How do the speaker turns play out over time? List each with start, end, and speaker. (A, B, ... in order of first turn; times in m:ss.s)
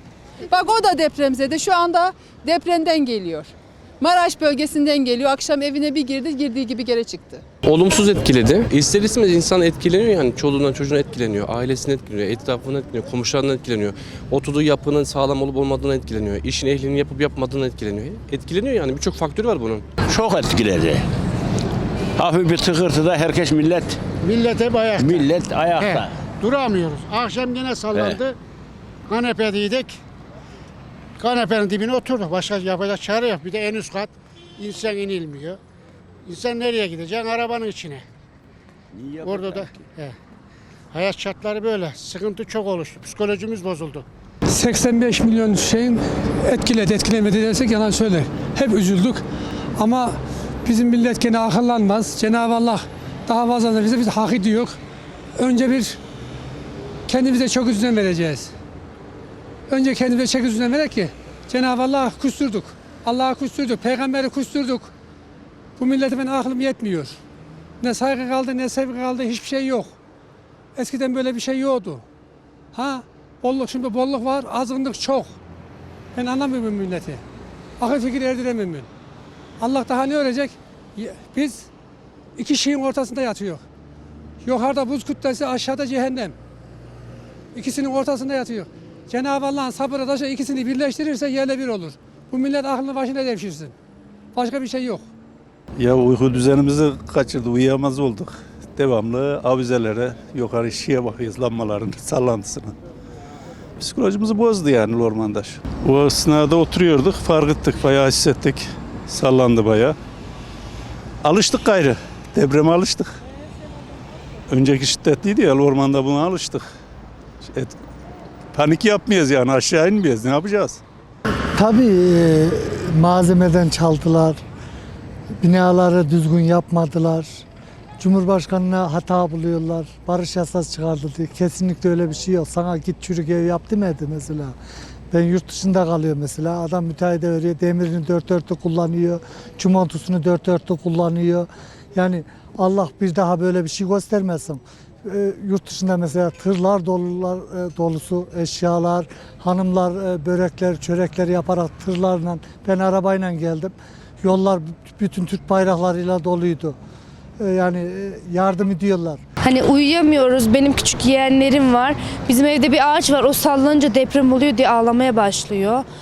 0:00.5-0:07.4 A
0:07.6-0:19.9 B
0:20.1-0:21.0 C
0:22.2-0:24.0 C
0:24.2-0:28.4 D
0:25.0-0:26.1 C
0:27.9-0:28.2 C
0:29.1-0:30.0 D
0:31.2-0:35.6 D
0:36.2-0:38.0 D
0:38.9-0:39.8 C
0:39.2-0:40.2 D
0:40.9-0:44.1 D
0:44.5-0:49.2 E
0:49.8-0:54.8 E
0:55.4-0:56.0 E
0:57.1-0:58.5 E
0:59.7-1:04.9 E
1:05.8-1:07.2 E
1:07.8-1:09.9 E
1:10.8-1:12.0 E
1:12.7-1:15.3 E
1:16.2-1:17.2 E
1:17.8-1:18.9 E
1:19.6-1:21.7 E
1:22.4-1:23.6 E
1:24.4-1:26.4 E
1:27.6-1:33.7 E
1:34.3-1:35.0 E
1:35.8-1:42.7 F
1:43.8-1:50.0 F
1:51.2-1:53.1 F
1:54.5-1:56.7 F
1:57.5-1:57.8 F
1:58.5-2:00.8 F
2:01.6-2:04.4 G
2:05.4-2:07.4 G
2:08.0-2:14.6 G
2:15.1-2:36.8 G
2:37.4-2:39.2 G
2:39.4-2:45.9 H